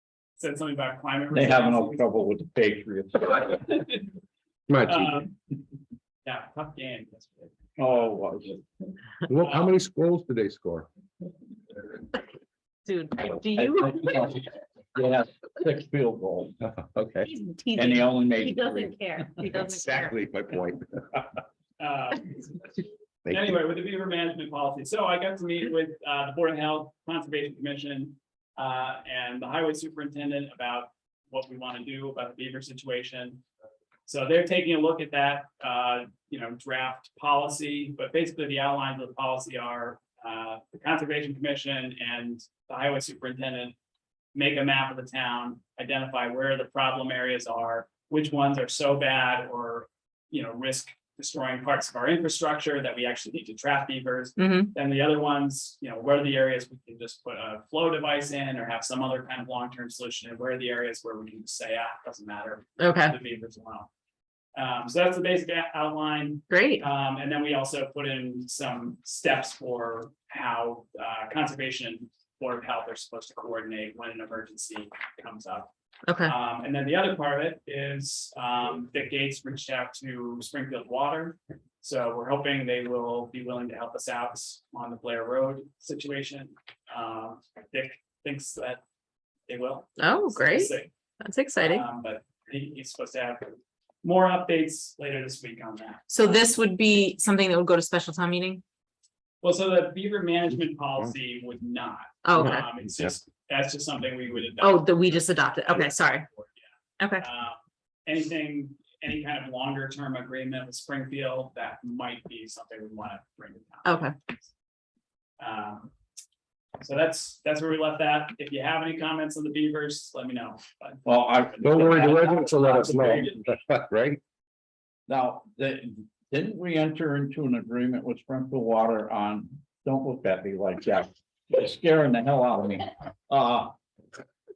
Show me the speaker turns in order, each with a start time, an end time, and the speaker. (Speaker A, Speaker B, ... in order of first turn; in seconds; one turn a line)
Speaker A: 0.4-2.0
Speaker B: 1.3-3.6
Speaker A: 3.3-4.0
Speaker C: 4.7-5.2
Speaker A: 4.8-5.3
Speaker A: 6.2-8.6
Speaker B: 7.8-8.5
Speaker C: 9.3-10.9
Speaker A: 9.4-9.8
Speaker D: 12.8-14.3
Speaker B: 13.3-17.0
Speaker C: 17.0-17.3
Speaker D: 17.2-20.1
Speaker B: 17.7-19.2
Speaker C: 19.4-20.9
Speaker A: 21.8-22.7
Speaker C: 23.2-23.5
Speaker A: 23.3-33.4
Speaker A: 34.1-43.7
Speaker A: 44.3-63.9
Speaker D: 54.4-54.7
Speaker D: 62.8-63.1
Speaker A: 64.5-75.7
Speaker D: 66.5-66.8
Speaker D: 76.1-76.3
Speaker A: 76.2-88.8
Speaker A: 89.5-90.9
Speaker D: 90.0-91.8
Speaker A: 91.6-96.5
Speaker D: 96.1-98.6
Speaker A: 99.4-106.7
Speaker D: 102.2-102.7
Speaker D: 104.6-106.3
Speaker D: 107.0-107.2
Speaker A: 107.2-114.1
Speaker D: 113.8-114.1
Speaker A: 115.4-115.9
Speaker A: 116.8-123.6
Speaker B: 121.0-123.3
Speaker C: 121.6-124.2
Speaker B: 125.1-133.7